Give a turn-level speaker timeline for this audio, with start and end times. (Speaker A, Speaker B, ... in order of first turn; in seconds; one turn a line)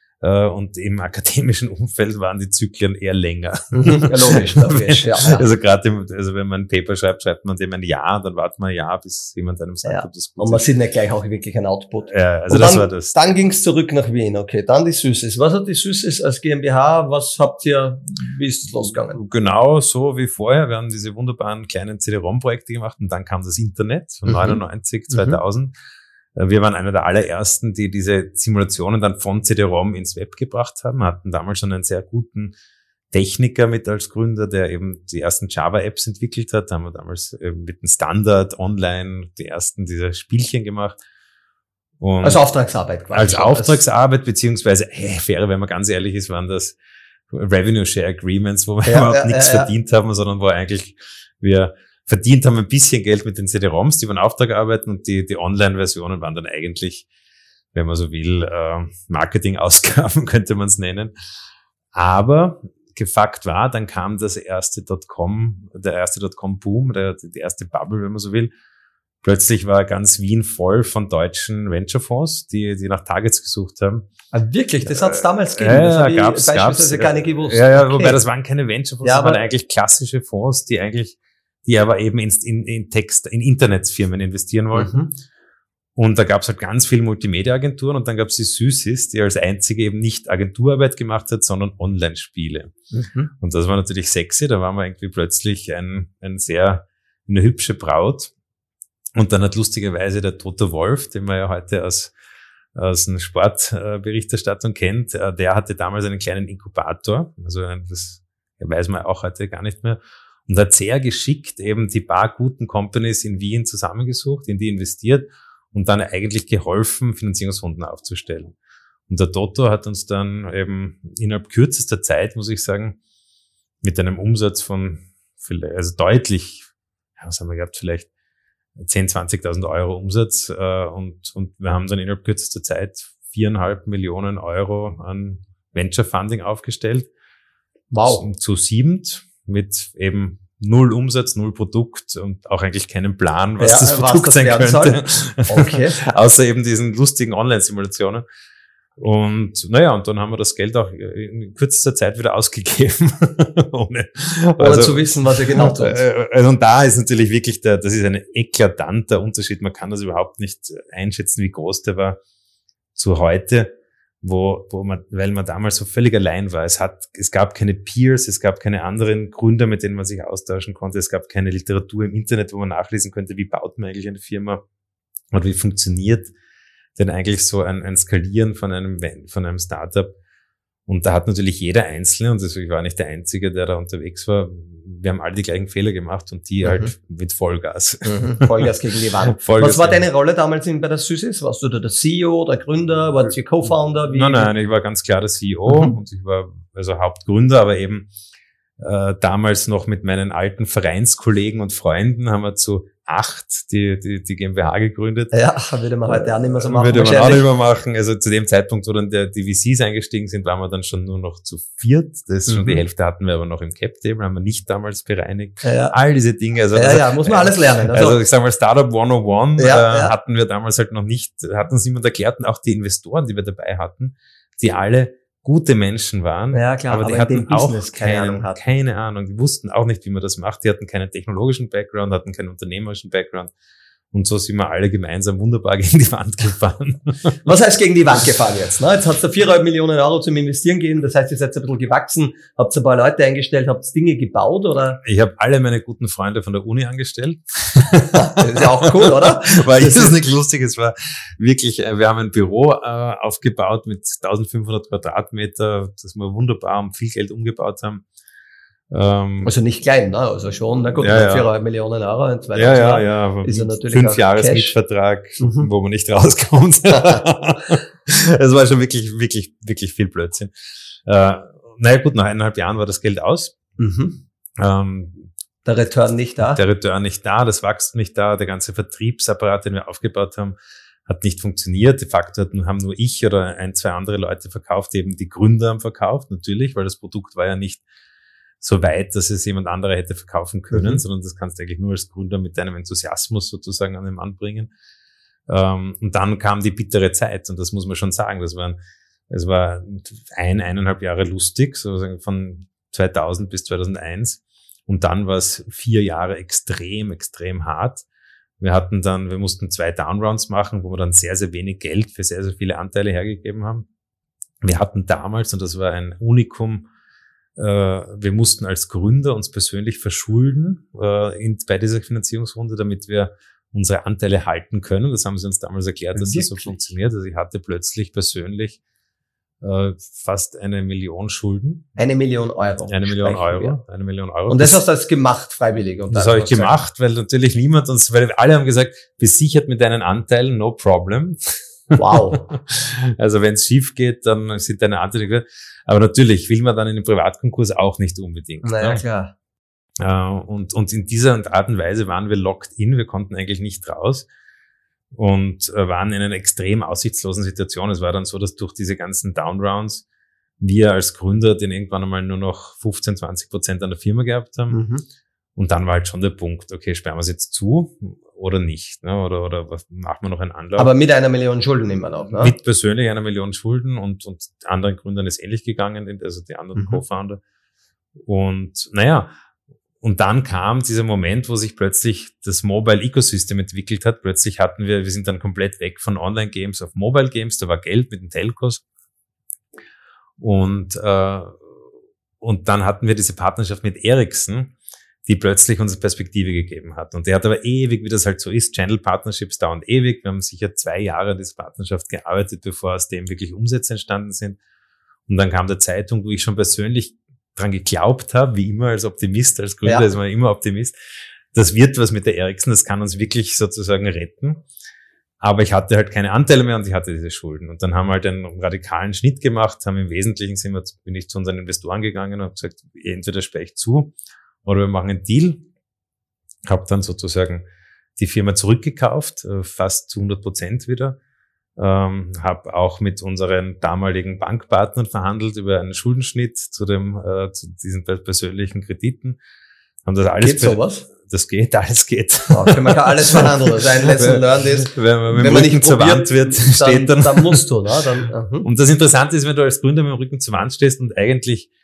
Speaker A: 0.2-10.6
Speaker B: 3.7-5.5
Speaker B: 9.8-19.2
Speaker A: 12.1-13.2
Speaker A: 19.1-25.7
Speaker B: 24.3-24.6
Speaker B: 25.1-25.4
Speaker A: 26.4-32.5
Speaker A: 33.1-41.0
Speaker A: 42.0-42.4
Speaker B: 42.2-43.8
Speaker A: 43.1-46.8
Speaker A: 47.3-57.1
Speaker B: 48.9-49.7
Speaker A: 57.7-61.1
Speaker A: 61.9-68.5
Speaker A: 69.2-74.1
Speaker B: 74.3-78.2
Speaker A: 74.8-85.0
Speaker B: 79.0-79.4
Speaker B: 84.7-85.1
Speaker A: 86.0-92.7
Speaker B: 92.9-93.3
Speaker A: 93.4-98.3
Speaker A: 99.2-102.1
Speaker A: 102.8-118.5
Speaker A: 119.1-123.0
Speaker A: 123.8-128.1
Speaker A: 128.8-137.1
Speaker B: 137.9-138.3
Speaker A: 138.1-148.2
Speaker B: 143.6-146.0
Speaker A: 149.0-162.2
Speaker B: 154.6-156.0
Speaker A: 162.9-163.7
Speaker A: 164.2-174.6
Speaker A: 175.3-176.3
Speaker A: 177.0-180.1
Speaker A: 180.9-188.7
Speaker B: 186.6-186.9
Speaker B: 188.0-194.5
Speaker A: 189.4-190.0
Speaker A: 194.1-198.1
Speaker B: 195.7-195.9
Speaker A: 198.8-205.3
Speaker B: 205.3-207.4
Speaker A: 206.1-233.5
Speaker B: 212.5-212.8
Speaker B: 215.6-216.0
Speaker B: 216.7-218.2
Speaker B: 219.6-220.1
Speaker B: 226.5-228.6
Speaker A: 234.1-237.3
Speaker B: 237.4-245.0
Speaker A: 245.0-258.0
Speaker B: 248.1-250.2
Speaker A: 258.9-259.5
Speaker B: 259.4-264.8
Speaker A: 261.0-261.5
Speaker A: 262.5-270.5
Speaker B: 265.4-265.7
Speaker B: 266.9-267.2
Speaker A: 271.1-273.6
Speaker B: 273.8-274.2
Speaker A: 274.6-275.3
Speaker B: 275.6-276.6
Speaker A: 276.4-287.8
Speaker A: 288.6-294.7
Speaker B: 290.7-291.0
Speaker A: 295.5-298.8
Speaker A: 299.3-308.1
Speaker A: 308.6-313.9
Speaker A: 314.6-316.9
Speaker A: 317.6-328.8
Speaker B: 326.1-326.8
Speaker A: 329.6-332.0
Speaker B: 332.0-333.8
Speaker A: 332.9-334.8
Speaker B: 334.5-336.8
Speaker A: 336.1-349.0
Speaker B: 341.9-342.4
Speaker B: 348.6-349.3
Speaker A: 350.0-354.3
Speaker A: 355.1-360.1
Speaker A: 360.6-364.8
Speaker B: 364.7-365.0
Speaker A: 365.6-370.9
Speaker B: 370.8-372.5
Speaker A: 372.4-377.4
Speaker B: 376.8-377.0
Speaker A: 378.2-379.3
Speaker A: 380.0-388.8
Speaker A: 390.4-391.6
Speaker A: 392.4-404.6
Speaker A: 405.3-410.9
Speaker A: 411.5-414.6
Speaker A: 415.4-425.6
Speaker A: 426.7-427.6
Speaker A: 428.2-431.2
Speaker A: 431.8-439.4
Speaker A: 440.1-447.7
Speaker B: 440.4-441.1
Speaker B: 442.5-448.7
Speaker A: 448.6-451.7